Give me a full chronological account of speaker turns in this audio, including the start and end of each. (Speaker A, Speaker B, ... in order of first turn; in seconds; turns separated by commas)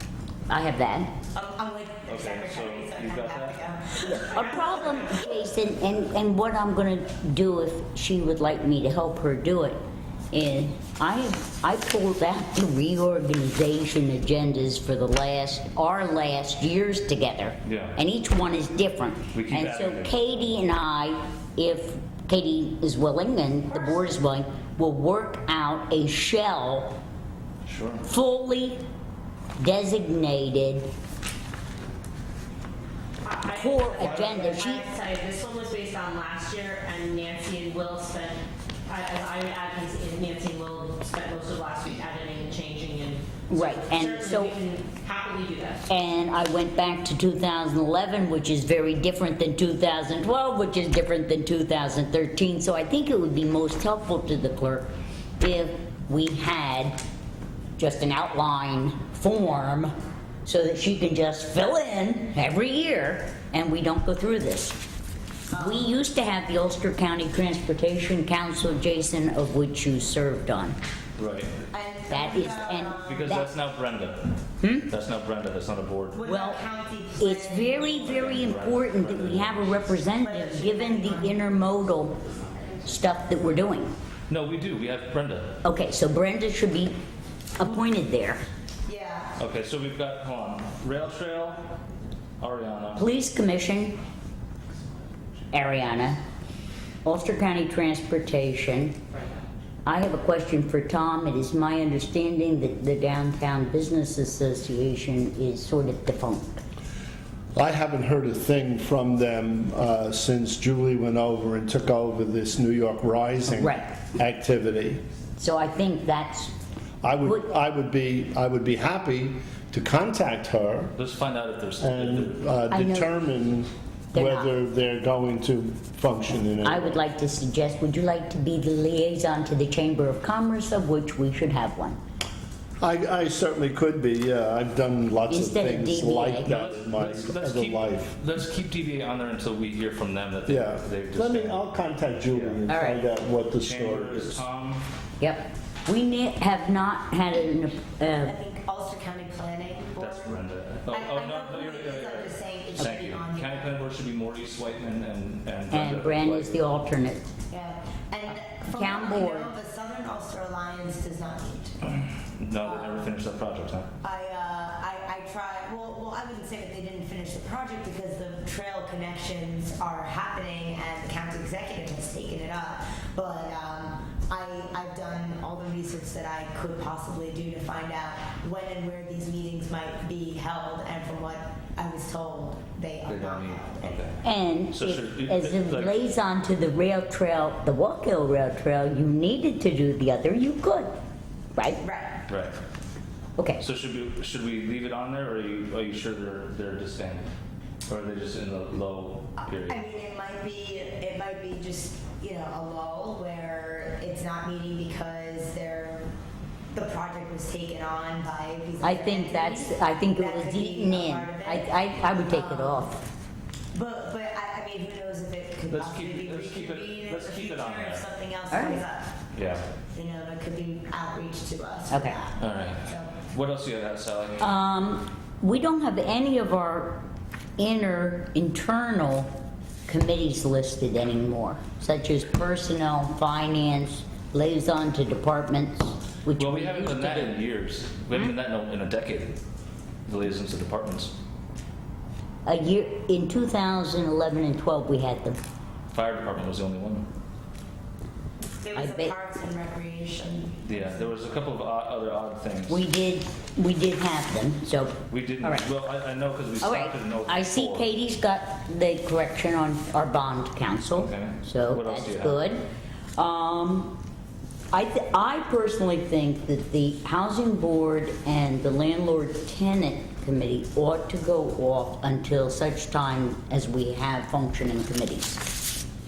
Speaker A: 0.5-1.1, Speaker B: 1.3-5.4, Speaker C: 2.1-3.7, Speaker A: 4.0-9.8, Speaker A: 10.3-27.0, Speaker C: 17.6-18.0, Speaker C: 19.3-20.4, Speaker C: 27.6-28.1, Speaker A: 28.1-28.8, Speaker A: 29.6-30.9, Speaker D: 33.2-45.9, Speaker A: 33.5-34.9, Speaker A: 43.5-44.5, Speaker A: 45.9-54.9, Speaker A: 55.4-57.0, Speaker A: 57.8-59.9, Speaker A: 60.4-64.8, Speaker B: 65.5-66.0, Speaker A: 65.5-70.8, Speaker C: 71.2-71.6, Speaker B: 71.7-73.4, Speaker A: 72.1-73.5, Speaker C: 73.0-76.2, Speaker A: 74.6-74.9, Speaker B: 76.1-78.5, Speaker A: 76.2-76.6, Speaker A: 77.2-82.2, Speaker C: 78.0-79.9, Speaker B: 80.2-81.8, Speaker A: 82.8-83.9, Speaker C: 84.3-85.6, Speaker A: 85.6-87.0, Speaker A: 87.5-88.4, Speaker B: 88.8-89.3, Speaker C: 89.4-91.7, Speaker C: 92.4-93.1, Speaker A: 93.0-94.0, Speaker A: 95.5-96.2, Speaker A: 97.0-99.0, Speaker A: 99.8-106.6, Speaker E: 107.5-115.0, Speaker A: 113.5-113.9, Speaker A: 115.4-116.5, Speaker E: 117.0-120.9, Speaker C: 121.0-122.5, Speaker E: 121.8-127.1, Speaker A: 122.7-123.1, Speaker A: 124.1-124.5, Speaker A: 126.6-132.0, Speaker E: 132.8-138.1, Speaker A: 135.3-136.5, Speaker C: 136.4-141.6, Speaker E: 140.5-144.4, Speaker C: 142.3-142.6, Speaker A: 142.7-143.1, Speaker C: 143.6-144.8, Speaker A: 145.2-148.3, Speaker B: 148.2-153.7, Speaker C: 150.0-156.7, Speaker A: 155.7-157.2, Speaker B: 157.5-161.8, Speaker A: 158.7-159.5, Speaker C: 161.8-163.9, Speaker B: 162.6-163.1, Speaker B: 164.0-184.0, Speaker C: 183.1-184.2, Speaker A: 184.2-190.9, Speaker C: 184.7-186.1, Speaker A: 191.5-191.8, Speaker B: 191.8-192.2, Speaker C: 192.3-192.6, Speaker C: 193.6-197.3, Speaker C: 197.9-199.8, Speaker B: 199.5-206.1, Speaker B: 206.7-212.9, Speaker A: 208.8-213.0, Speaker B: 213.7-219.2, Speaker C: 215.7-218.1, Speaker A: 218.5-218.8, Speaker C: 219.3-219.6, Speaker B: 219.9-223.2, Speaker A: 221.9-222.2, Speaker C: 222.4-224.5, Speaker A: 224.4-227.0, Speaker A: 227.6-229.3, Speaker A: 229.9-237.4, Speaker C: 236.3-239.4, Speaker C: 240.1-241.1, Speaker A: 242.4-245.4, Speaker C: 245.9-247.1, Speaker B: 248.6-251.1, Speaker A: 248.7-249.1, Speaker C: 250.6-252.8, Speaker A: 252.7-255.7, Speaker C: 255.1-257.9, Speaker A: 256.6-262.6, Speaker C: 260.9-262.4, Speaker A: 263.1-264.0, Speaker A: 264.7-275.5